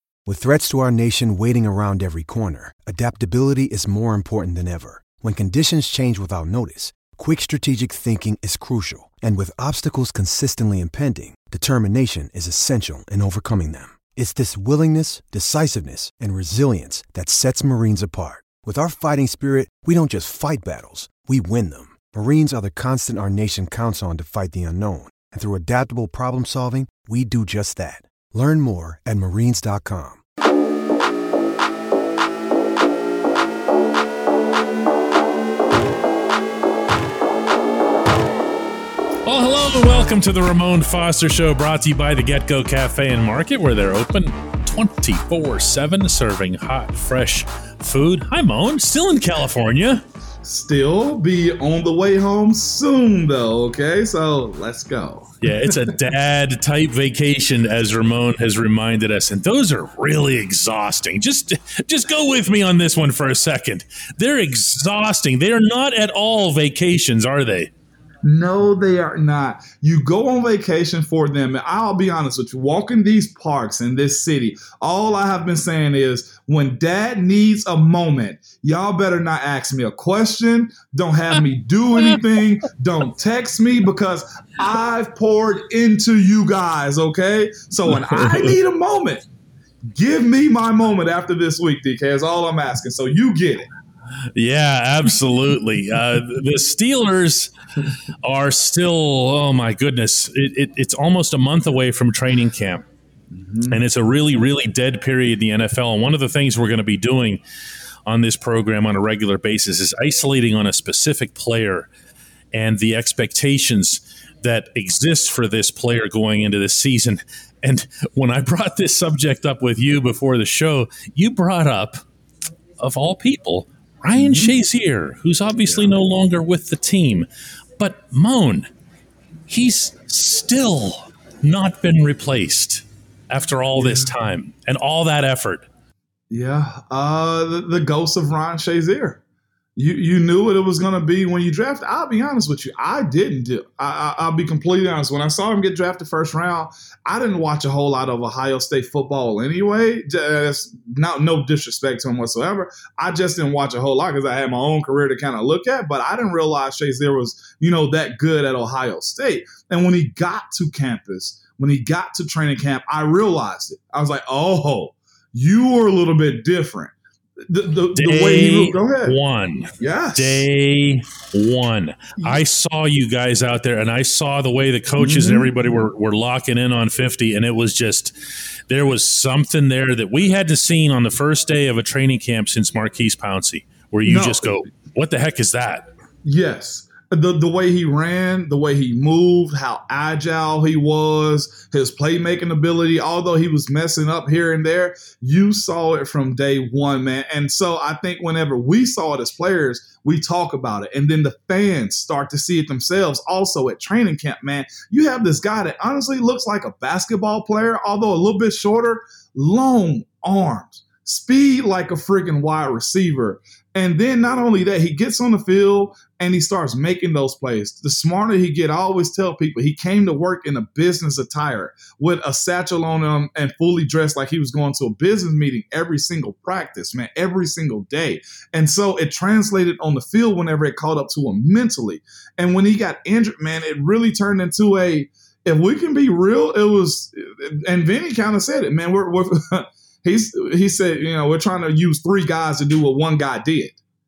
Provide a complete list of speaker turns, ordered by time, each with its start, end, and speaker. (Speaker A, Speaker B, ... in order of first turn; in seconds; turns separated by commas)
Speaker A: 0.3-30.2, Speaker B: 39.2-50.0, Speaker C: 50.4-55.8, Speaker B: 55.4-67.7, Speaker C: 68.2-89.2, Speaker B: 87.9-88.5, Speaker C: 89.9-93.7, Speaker B: 94.3-97.5, Speaker B: 98.2-102.8, Speaker C: 103.3-103.8, Speaker B: 103.7-107.4, Speaker B: 108.1-111.9, Speaker B: 112.5-122.0, Speaker B: 122.8-127.3, Speaker C: 124.2-124.5, Speaker B: 127.8-128.7, Speaker B: 129.5-135.7, Speaker C: 133.8-134.1, Speaker C: 136.3-139.2, Speaker C: 139.8-166.9, Speaker C: 167.5-169.2, Speaker B: 167.9-178.1, Speaker C: 169.8-170.4, Speaker C: 172.2-172.4, Speaker C: 175.0-175.5, Speaker B: 178.7-185.9, Speaker C: 184.1-184.7, Speaker C: 186.2-243.8